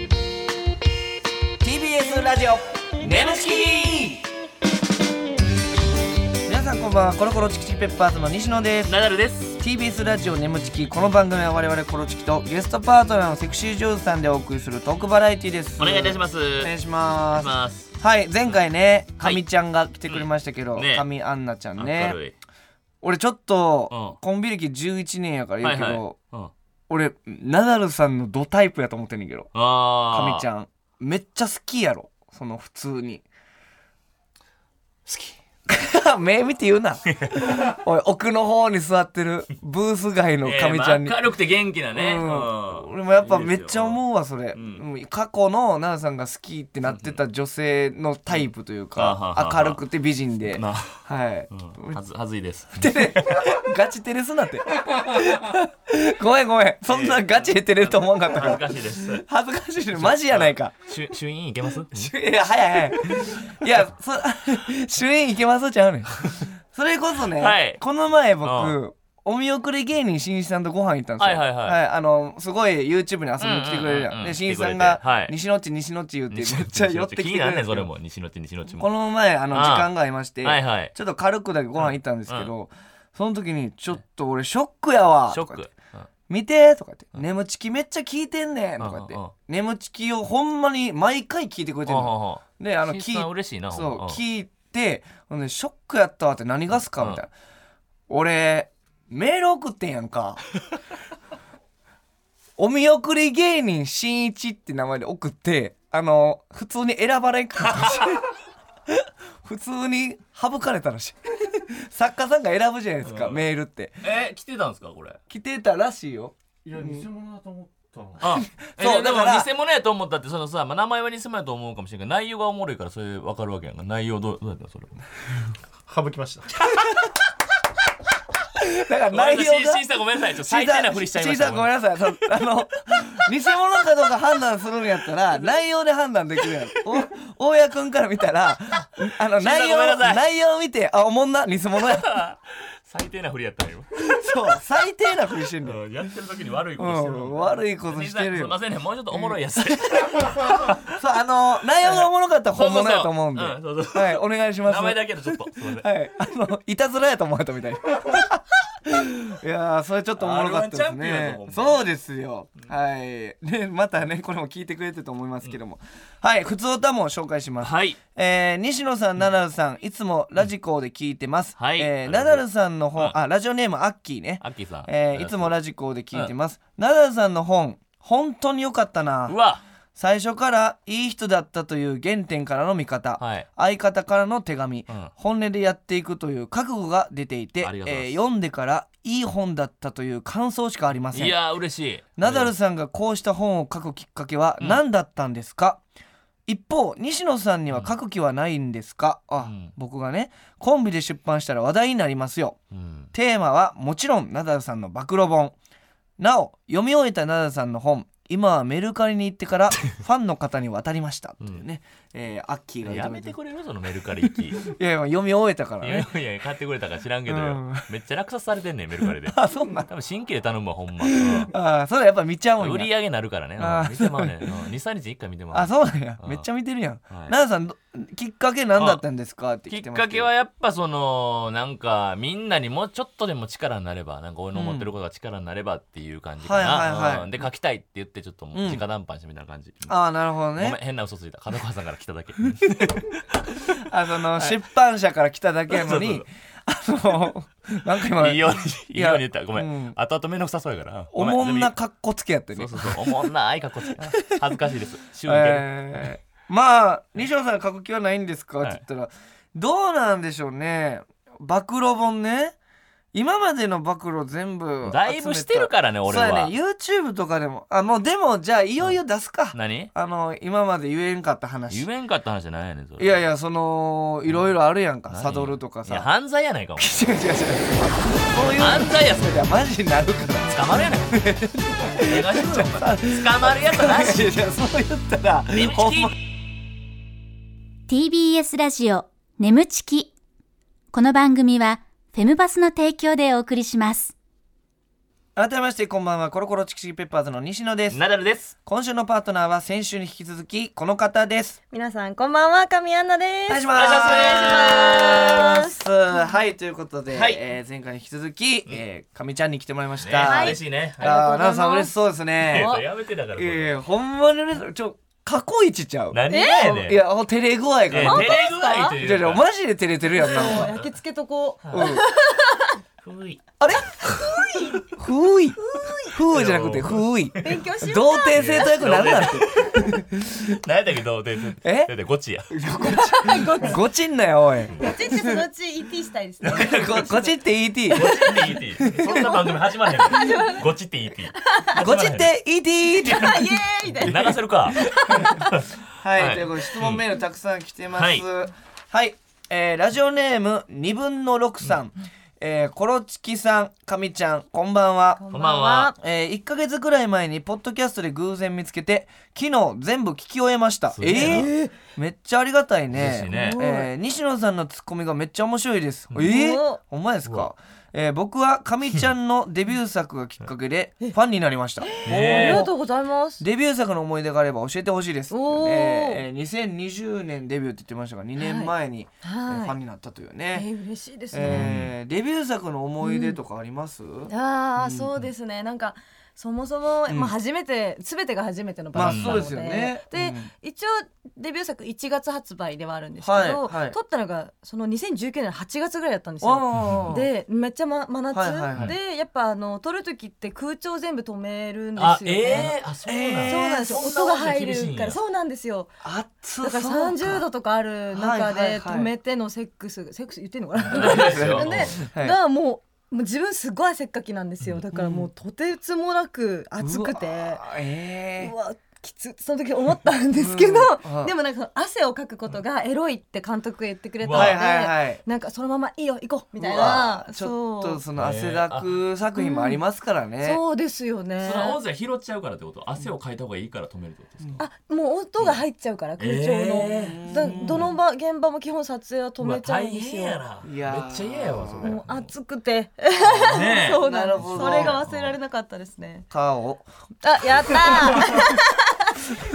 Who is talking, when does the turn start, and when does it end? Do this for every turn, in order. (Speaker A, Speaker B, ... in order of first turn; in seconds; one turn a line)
Speaker A: 1.6-4.2
Speaker A: 6.4-8.9
Speaker B: 8.8-9.6
Speaker A: 9.6-22.2
Speaker B: 15.8-16.7
Speaker B: 17.3-17.9
Speaker B: 19.2-19.4
Speaker B: 20.1-21.1
Speaker B: 21.8-22.3
Speaker A: 23.0-26.2
Speaker B: 23.9-24.2
Speaker B: 25.6-26.5
Speaker A: 26.9-29.5
Speaker B: 29.5-30.4
Speaker A: 30.1-33.2
Speaker B: 35.1-35.4
Speaker A: 35.7-41.1
Speaker B: 37.1-37.7
Speaker B: 40.4-44.0
Speaker A: 41.9-52.0
Speaker B: 44.5-44.8
Speaker B: 46.9-47.2
Speaker B: 49.0-49.8
Speaker B: 50.5-51.0
Speaker B: 51.5-53.5
Speaker A: 52.8-60.8
Speaker B: 56.9-59.2
Speaker B: 59.9-62.1
Speaker A: 61.9-77.9
Speaker B: 67.4-67.8
Speaker B: 68.4-68.8
Speaker B: 71.2-71.8
Speaker B: 73.4-75.3
Speaker B: 76.3-78.9
Speaker A: 78.8-85.7
Speaker B: 79.5-80.9
Speaker B: 81.8-82.5
Speaker B: 85.3-86.1
Speaker A: 86.3-97.3
Speaker B: 88.8-89.3
Speaker B: 91.8-94.2
Speaker A: 98.1-100.4
Speaker A: 102.6-108.2
Speaker A: 108.9-114.0
Speaker B: 113.0-113.4
Speaker B: 114.0-115.2
Speaker A: 115.3-117.1
Speaker C: 116.6-118.2
Speaker B: 118.2-125.0
Speaker A: 118.4-119.5
Speaker C: 125.9-126.5
Speaker A: 128.6-129.8
Speaker B: 129.1-132.1
Speaker A: 130.4-142.2
Speaker B: 139.0-140.2
Speaker B: 141.8-144.2
Speaker A: 144.0-145.8
Speaker B: 145.6-150.9
Speaker A: 146.8-148.6
Speaker A: 149.1-149.4
Speaker A: 150.7-179.3
Speaker B: 152.0-155.8
Speaker B: 160.2-161.8
Speaker B: 167.6-168.0
Speaker B: 171.6-172.4
Speaker B: 174.4-175.5
Speaker B: 179.3-179.6
Speaker A: 180.0-191.3
Speaker B: 183.2-183.5
Speaker B: 187.6-188.2
Speaker B: 191.1-192.5
Speaker A: 192.2-195.8
Speaker A: 196.5-202.6
Speaker B: 199.4-199.7
Speaker B: 202.7-203.1
Speaker A: 203.1-205.5
Speaker A: 206.2-213.3
Speaker B: 212.8-214.7
Speaker A: 214.6-216.1
Speaker B: 215.8-221.5
Speaker A: 217.2-217.9
Speaker A: 219.2-219.9
Speaker A: 221.0-222.9
Speaker B: 222.6-226.4
Speaker A: 223.6-224.5
Speaker A: 225.5-230.3
Speaker B: 227.1-227.3
Speaker B: 228.8-229.0
Speaker B: 229.7-239.9
Speaker A: 234.5-234.9
Speaker A: 236.4-237.4
Speaker A: 238.5-238.8
Speaker A: 239.9-240.8
Speaker B: 240.6-243.8
Speaker A: 242.5-243.0
Speaker A: 243.7-249.9
Speaker B: 245.7-246.2
Speaker B: 248.0-251.7
Speaker A: 251.1-253.3
Speaker B: 252.5-256.1
Speaker A: 254.0-254.4
Speaker A: 255.2-262.6
Speaker A: 263.1-271.9
Speaker B: 264.8-266.5
Speaker B: 269.5-269.9
Speaker B: 271.7-273.2
Speaker A: 273.0-276.1
Speaker B: 275.1-276.9
Speaker A: 276.8-286.1
Speaker B: 278.5-279.4
Speaker B: 280.5-281.2
Speaker B: 281.9-284.3
Speaker B: 285.5-286.1
Speaker D: 287.9-290.1
Speaker D: 290.9-294.1
Speaker A: 295.4-298.0
Speaker B: 297.9-298.5
Speaker A: 298.6-301.6
Speaker E: 301.7-305.8
Speaker A: 303.5-312.7
Speaker B: 303.7-305.4
Speaker B: 307.1-307.4
Speaker B: 310.0-311.1
Speaker E: 310.2-311.9
Speaker B: 312.4-313.8
Speaker E: 312.5-312.8
Speaker A: 313.4-318.4
Speaker B: 316.1-317.0
Speaker E: 316.3-316.8
Speaker B: 317.9-319.4
Speaker E: 318.0-319.0
Speaker A: 318.9-320.7
Speaker E: 320.1-322.8
Speaker B: 320.3-320.9
Speaker B: 321.6-321.9
Speaker A: 321.7-322.0
Speaker B: 323.0-323.5
Speaker A: 323.6-324.2
Speaker E: 324.0-324.9
Speaker A: 324.9-330.6
Speaker E: 325.6-326.1
Speaker B: 326.2-327.6
Speaker E: 327.4-328.6
Speaker B: 328.3-332.5
Speaker A: 331.6-331.9
Speaker A: 332.5-335.4
Speaker E: 332.8-333.8
Speaker E: 334.8-337.3
Speaker A: 336.5-338.3
Speaker B: 336.5-337.2
Speaker E: 337.9-340.6
Speaker B: 337.9-342.3
Speaker A: 338.8-339.4
Speaker E: 341.4-341.8
Speaker A: 341.8-343.5
Speaker E: 343.0-345.4
Speaker B: 343.1-343.4
Speaker B: 344.0-347.0
Speaker A: 345.1-345.4
Speaker A: 346.0-355.2
Speaker B: 347.9-348.2
Speaker E: 355.2-355.9
Speaker B: 355.3-355.9
Speaker A: 355.9-372.7
Speaker B: 360.9-361.5
Speaker E: 361.1-361.7
Speaker B: 362.9-363.6
Speaker E: 363.3-363.9
Speaker E: 366.2-366.8
Speaker E: 371.8-373.4
Speaker B: 372.0-372.7
Speaker A: 373.4-380.7
Speaker E: 375.3-376.2
Speaker E: 378.4-379.8
Speaker E: 380.5-381.7
Speaker A: 381.3-385.1
Speaker B: 381.4-381.9
Speaker E: 383.0-383.4
Speaker E: 384.3-402.7
Speaker A: 387.1-387.3
Speaker A: 388.9-390.5
Speaker B: 388.9-389.4
Speaker A: 393.2-393.9
Speaker A: 396.4-397.3
Speaker B: 396.7-397.1
Speaker A: 398.3-398.9
Speaker B: 402.0-405.2
Speaker A: 402.5-404.0
Speaker E: 403.4-405.9
Speaker A: 406.0-407.4
Speaker E: 406.6-417.6
Speaker A: 408.1-409.1
Speaker B: 410.9-412.0
Speaker A: 410.9-412.4
Speaker A: 414.9-415.3
Speaker A: 416.8-418.5
Speaker E: 418.4-428.0
Speaker A: 420.4-421.3
Speaker B: 424.2-424.6
Speaker A: 424.3-425.2
Speaker A: 426.6-430.6
Speaker B: 428.2-428.9
Speaker E: 429.4-429.8
Speaker E: 430.4-431.8
Speaker B: 431.4-434.6
Speaker E: 434.6-440.4
Speaker B: 436.2-437.9
Speaker A: 436.9-437.9
Speaker B: 439.4-442.3
Speaker A: 440.6-442.0
Speaker E: 441.8-446.3
Speaker B: 443.3-445.3
Speaker A: 443.3-445.0
Speaker A: 446.3-446.8
Speaker E: 447.2-449.2
Speaker A: 447.9-448.4